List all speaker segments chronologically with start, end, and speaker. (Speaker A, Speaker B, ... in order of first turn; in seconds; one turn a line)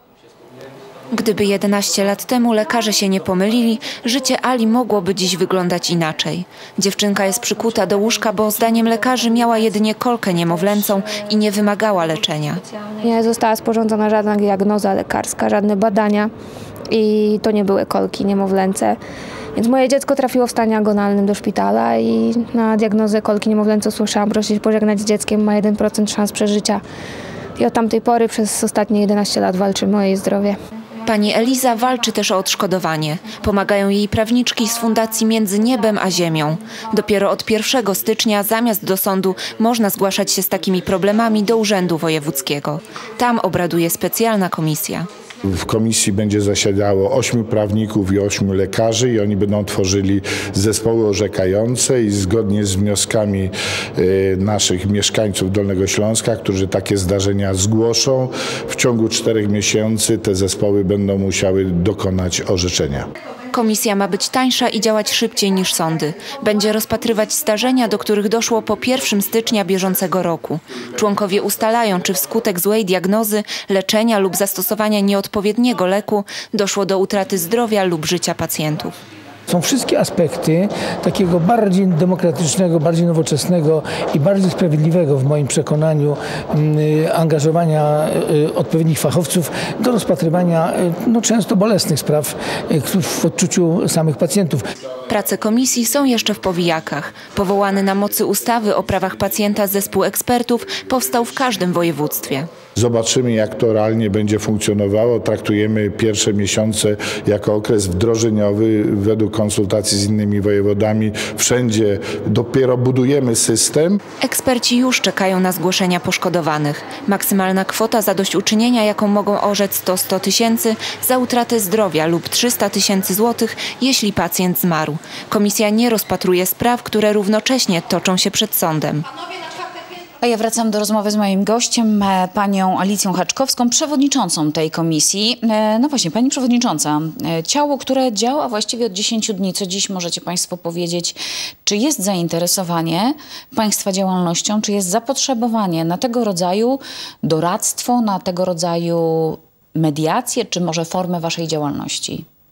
Speaker A: 1.1-12.6
Speaker B: 13.0-16.3
Speaker B: 16.9-19.0
Speaker B: 19.6-26.8
Speaker B: 27.6-30.6
Speaker A: 31.1-45.1
Speaker C: 45.4-63.1
Speaker A: 63.5-78.9
Speaker D: 79.5-94.6
Speaker A: 95.1-102.5
Speaker C: 102.8-114.0
Speaker A: 114.2-129.1
Speaker E: 130.2-152.2